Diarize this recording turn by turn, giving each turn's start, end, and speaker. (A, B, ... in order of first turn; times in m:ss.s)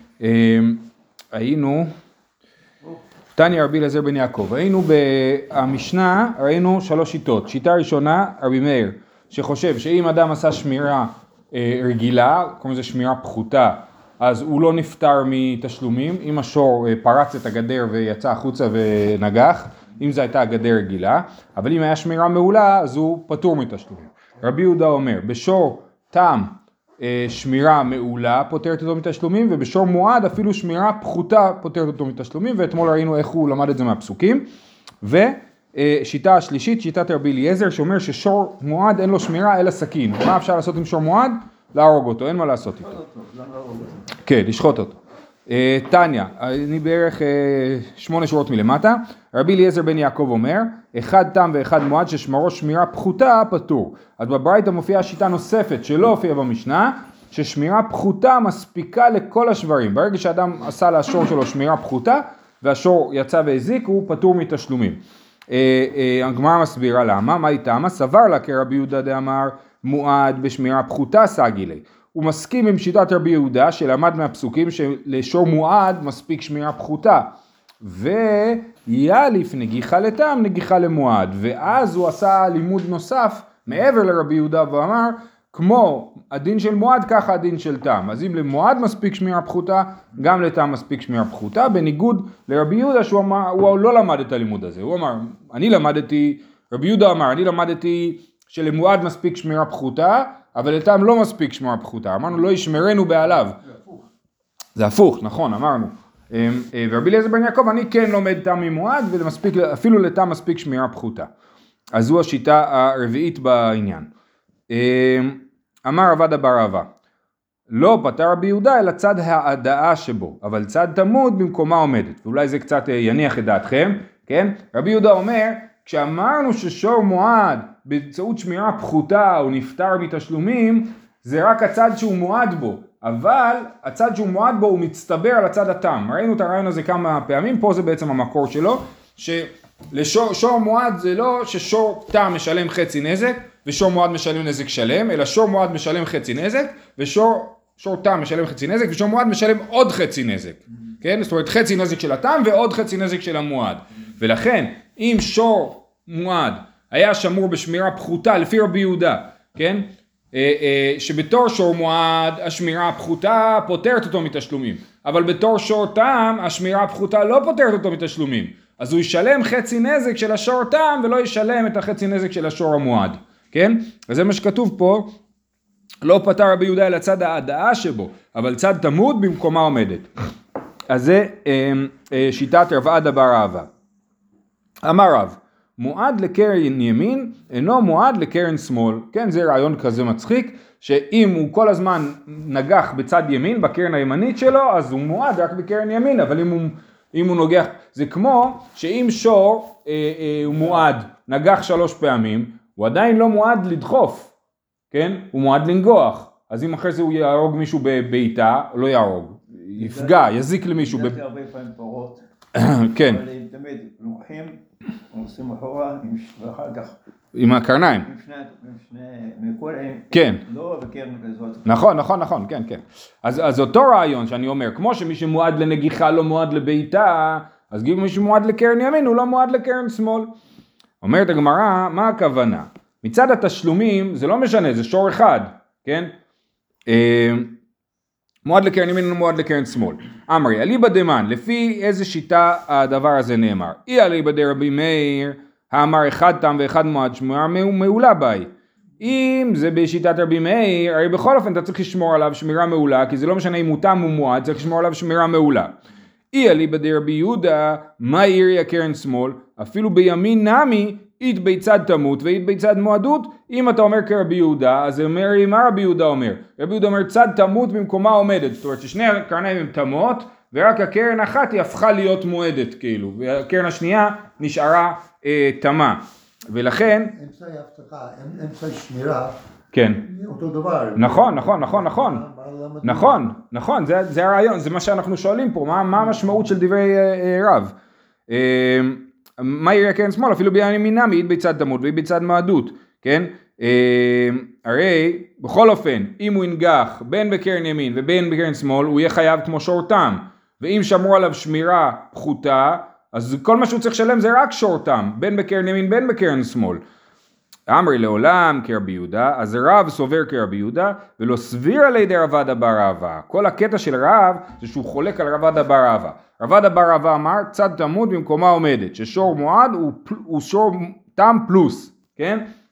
0:00.2-0:01.9 A
0:03.4-0:34.5 A
0:35.0-0:43.0 A
0:42.9-0:44.0 B
0:44.2-1:05.0 A
1:05.5-1:43.6 A
1:44.8-1:51.3 A
1:51.9-1:54.1 A
1:54.7-1:56.9 A
1:57.7-2:55.1 A
2:56.0-3:00.1 A
3:00.9-3:03.7 A
3:04.8-3:24.3 A
3:24.9-3:31.2 A
3:29.7-3:32.2 B
3:32.6-3:33.2 A
3:33.0-3:37.0 B
3:37.3-3:38.1 A
3:38.1-3:41.7 B
3:40.1-3:40.4 A
3:41.7-3:50.3 A
3:51.0-3:56.1 A
3:56.9-3:57.6 A
3:58.4-4:15.7 A
4:16.3-4:37.1 A
4:37.1-4:39.4 C
4:39.7-4:40.0 A
4:40.0-4:43.3 C
4:41.0-4:42.2 A
4:42.8-4:47.7 A
4:48.3-5:06.8 A
5:07.7-5:22.5 A